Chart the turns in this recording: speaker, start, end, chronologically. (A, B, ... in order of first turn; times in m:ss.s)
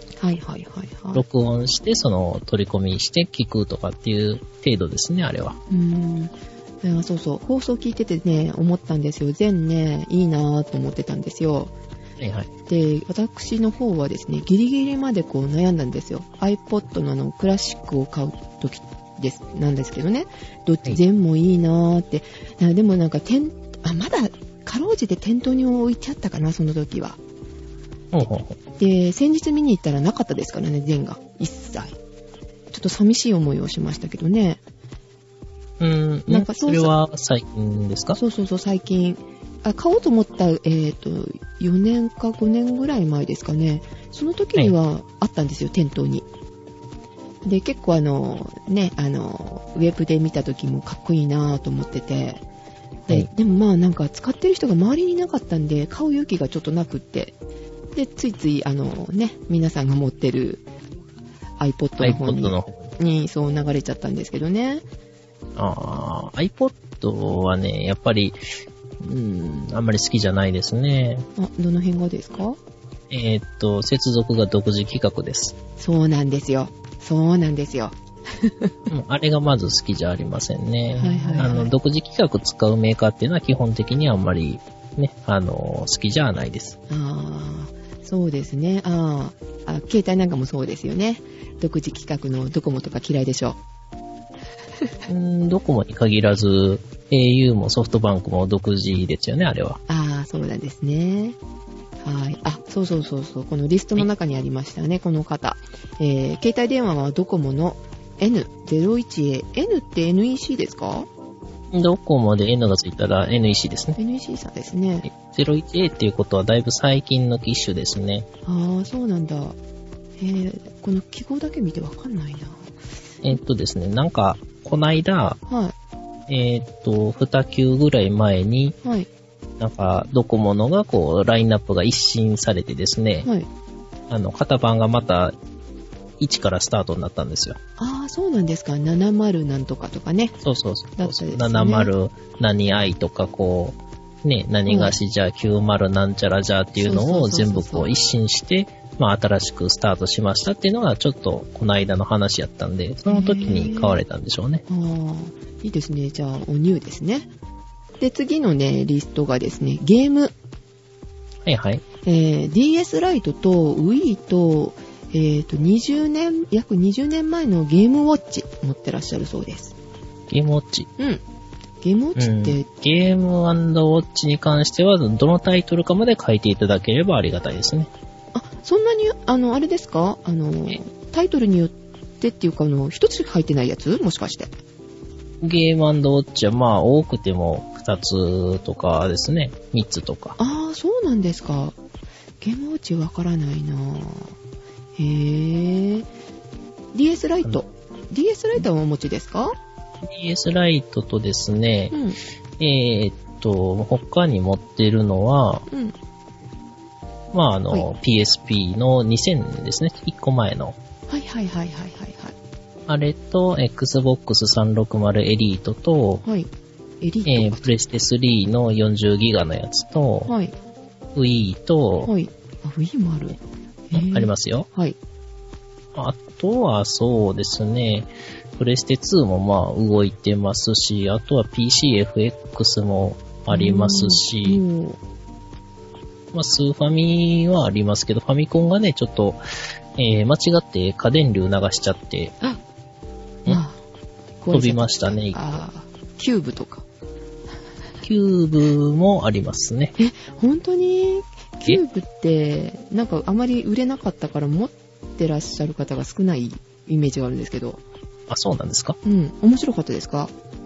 0:00.2-0:01.2 A
0:01.1-0:05.6 B
0:05.7-0:11.7 A
0:12.2-0:12.5 B
0:12.7-0:27.2 A
0:28.1-0:28.6 B
0:28.8-0:32.0 A
0:32.7-0:34.6 A
0:35.8-0:38.2 B
0:36.3-0:36.9 A
0:38.1-0:46.2 A
0:47.4-0:52.4 A
0:53.1-0:57.3 A
0:57.9-1:00.6 A
1:01.6-1:04.8 A
1:02.0-1:02.9 B
1:05.6-1:08.4 B
1:09.0-1:11.3 B
1:11.4-1:12.6 A
1:13.1-1:15.6 B
1:15.8-1:18.7 A
1:18.9-1:26.8 B
1:20.9-1:21.7 A
1:26.9-1:33.6 A
1:35.1-1:39.8 B
1:39.9-1:41.4 A
1:42.0-1:51.1 A
1:51.7-1:54.0 B
1:54.0-1:55.1 A
1:55.0-1:58.3 B
1:58.4-1:59.6 A
2:00.2-2:02.7 A
2:03.2-2:05.4 B
2:05.5-2:05.7 A
2:06.3-2:08.8 B
2:08.8-2:09.1 A
2:09.6-2:13.3 B
2:14.1-2:15.3 B
2:16.2-2:17.6 B
2:17.8-2:20.4 A
2:20.4-2:34.6 B
2:21.0-2:21.9 A
2:24.7-2:24.9 A
2:26.8-2:27.9 A
2:33.1-2:34.0 A
2:34.7-2:37.3 A
2:38.0-2:40.3 A
2:41.4-2:41.8 B
2:42.0-2:49.7 A
2:50.3-2:50.9 B
2:51.8-2:52.7 A
2:52.2-2:57.9 B
2:58.3-3:04.5 A
3:05.4-3:10.4 B
3:10.4-3:11.8 A
3:12.4-3:14.3 A
3:15.0-3:16.1 A
3:16.9-3:19.6 A
3:20.0-3:22.0 B
3:21.9-3:22.2 A
3:22.6-3:25.6 B
3:25.7-3:25.9 A
3:27.3-3:30.8 B
3:31.1-3:32.3 A
3:32.9-3:36.2 B
3:36.2-3:36.5 A
3:37.0-3:37.7 A
3:37.2-3:40.3 B
3:40.3-3:40.5 A
3:41.1-3:42.1 B
3:42.0-3:43.4 A
3:43.9-3:45.0 A
3:43.9-3:44.7 B
3:45.9-3:54.6 B
3:53.5-3:55.0 A
3:56.3-3:59.4 B
4:00.0-4:02.4 B
4:03.4-4:03.8 A
4:04.4-4:06.8 A
4:04.5-4:05.4 B
4:08.0-4:09.9 B
4:10.0-4:17.8 A
4:18.3-4:19.0 B
4:19.0-4:20.3 A